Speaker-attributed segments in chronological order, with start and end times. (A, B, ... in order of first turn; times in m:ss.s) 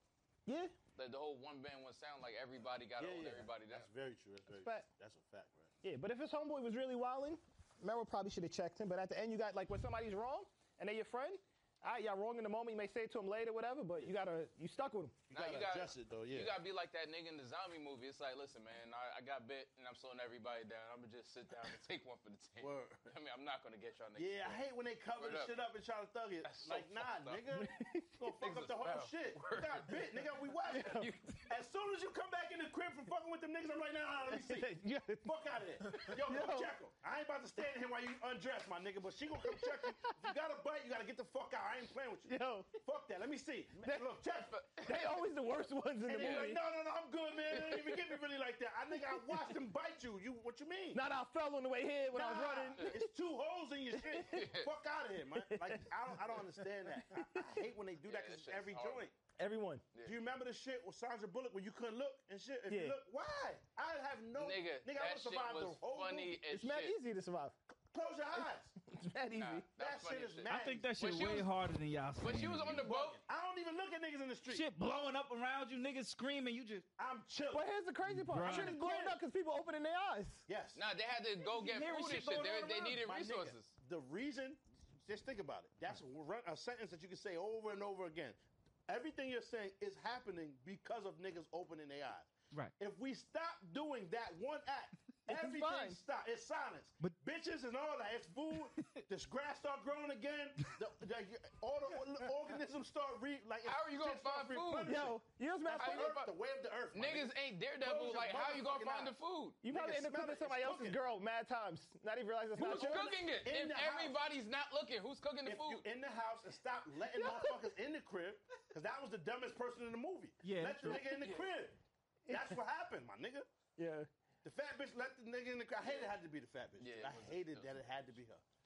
0:00.4-0:00.7 A
0:00.9-0:03.9 B
0:03.0-0:05.7 C
0:04.5-0:04.8 A
0:05.8-0:15.3 A
0:15.3-0:16.5 C
0:15.3-0:24.6 B
0:22.6-0:23.1 C
0:24.2-0:44.6 C
0:25.1-0:25.6 B
0:26.4-0:27.4 B
0:27.6-0:28.2 A
0:28.4-0:30.3 B
0:30.7-0:31.4 A
0:34.3-0:35.3 A
0:36.0-0:36.7 A
0:39.5-0:40.2 A
0:42.2-0:42.7 A
0:43.8-0:44.1 A
0:44.5-0:45.2 B
0:44.8-0:46.6 A
0:46.1-0:51.0 C
0:46.2-0:46.5 B
0:47.5-0:48.1 B
0:50.9-0:53.0 A
0:52.1-0:59.1 C
0:54.0-0:54.4 A
0:54.2-0:54.7 B
0:55.3-0:57.4 A
0:58.0-0:59.1 B
0:59.4-0:59.8 A
1:00.0-1:06.4 C
1:02.7-1:03.0 A
1:04.3-1:07.0 B
1:06.5-1:07.6 A
1:07.9-1:08.7 C
1:08.4-1:09.7 A
1:09.4-1:11.5 B
1:09.8-1:10.9 C
1:10.5-1:12.9 D
1:12.2-1:13.2 B
1:12.7-1:14.7 C
1:14.5-1:16.9 D
1:17.0-1:17.7 C
1:17.5-1:20.5 A
1:18.0-1:18.8 D
1:18.4-1:19.2 C
1:20.5-1:20.8 C
1:20.7-1:23.7 B
1:21.4-1:51.0 C
1:35.3-1:36.0 A
1:43.6-1:45.1 B
1:44.8-1:46.2 A
1:45.8-1:46.3 B
1:46.9-1:49.6 B
1:49.6-1:53.1 A
1:52.6-1:55.8 B
1:52.6-1:54.2 C
1:55.4-2:03.5 C
1:57.2-1:57.5 A
2:00.4-2:01.1 D
2:02.3-2:02.6 A
2:03.8-2:04.1 A
2:04.4-2:08.4 C
2:05.8-2:06.2 B
2:06.8-2:07.8 B